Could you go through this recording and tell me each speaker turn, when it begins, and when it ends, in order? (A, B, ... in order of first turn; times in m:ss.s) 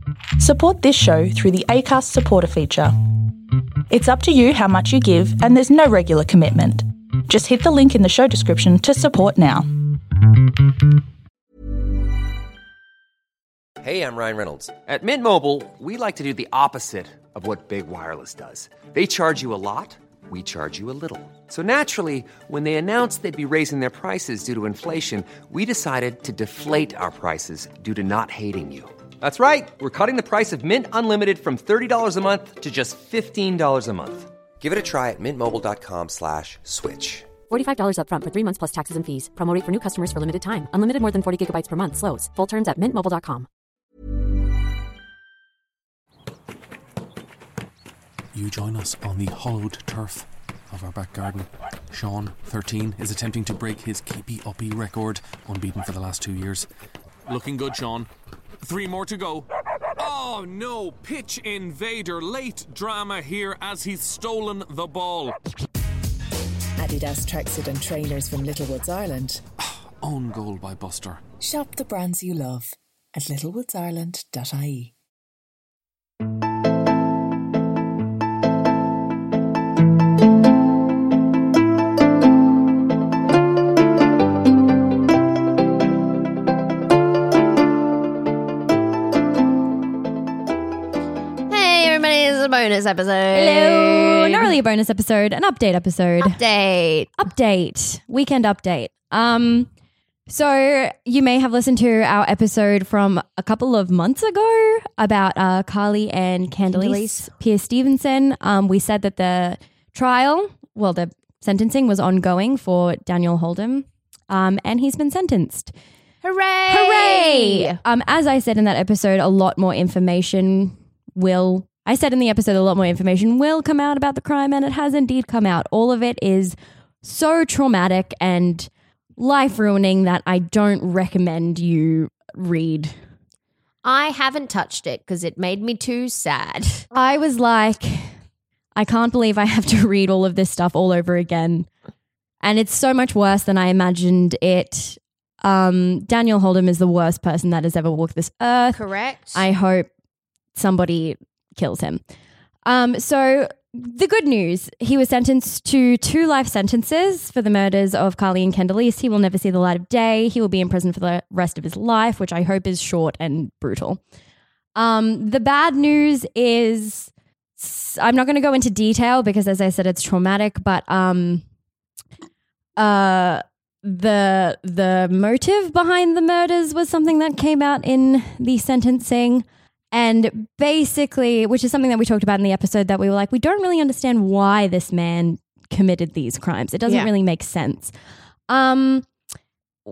0:00.4-0:02.9 A
0:03.9-0:09.7 A
0:13.8-0:37.3 B
0:37.5-0:43.5 C
0:48.4-0:56.7 D
0:57.3-0:58.1 D
0:58.6-0:59.5 D
1:00.0-1:05.4 D
1:06.8-1:09.4 E
1:09.7-1:11.3 D
1:11.4-1:14.9 E
1:31.5-1:34.5 F
1:33.3-1:36.4 G
1:36.2-1:37.1 F
1:37.2-1:39.7 G
1:40.3-1:55.7 G
1:46.7-1:47.3 F
1:56.2-1:57.8 F
1:56.7-2:13.0 G
2:13.8-2:16.9 F
2:16.9-2:18.2 G
2:18.8-2:21.7 G
2:22.4-2:28.8 G
2:28.7-2:29.5 F
2:29.4-2:29.9 G
2:30.6-2:32.0 G
2:32.6-2:44.0 G
2:44.8-2:51.4 G
2:52.8-3:07.9 G
3:08.5-3:09.1 G